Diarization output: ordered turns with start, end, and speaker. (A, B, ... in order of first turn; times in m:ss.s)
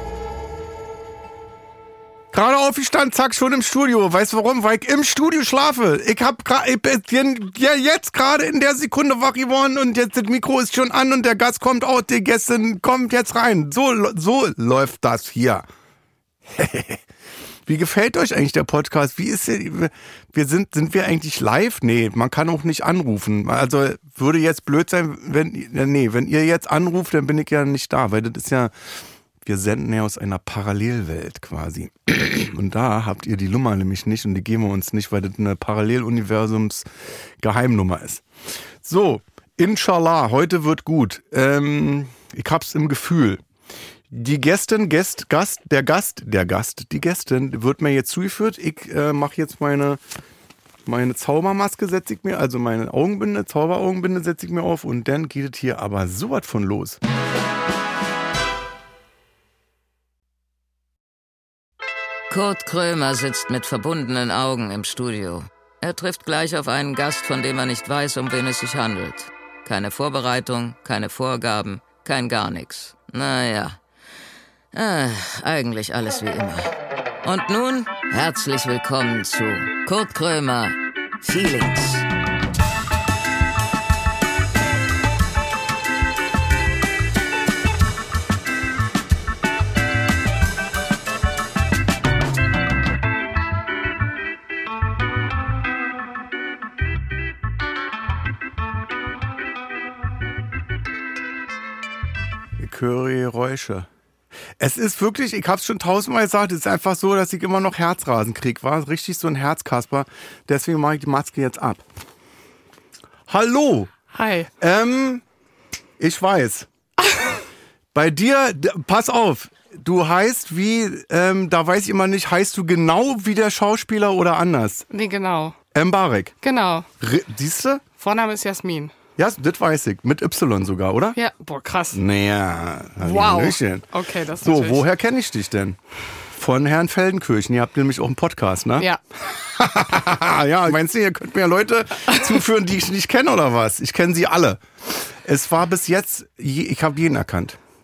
0:02.3-0:15.7 A
0:16.5-0:17.0 A
0:17.6-0:28.7 A
0:29.4-0:36.8 A
0:37.4-0:38.2 A
0:38.8-0:43.4 A
0:44.1-0:50.0 A
0:50.8-0:57.0 A
1:02.3-1:13.8 B
1:14.7-1:16.7 B
1:17.2-1:22.1 B
1:42.6-1:43.9 A
1:44.6-1:51.8 A
1:53.3-1:53.9 A
1:54.1-1:54.5 C
1:54.6-1:55.2 A
1:56.0-1:56.7 A
1:57.9-2:04.8 A
2:04.9-2:05.6 C
2:05.7-2:06.3 A
2:06.4-2:06.9 C
2:07.0-2:07.8 A
2:08.0-2:08.9 C
2:09.2-2:11.2 A
2:11.1-2:12.0 C
2:11.9-2:13.9 A
2:13.0-2:14.8 C
2:14.4-2:15.8 A
2:16.3-2:27.6 A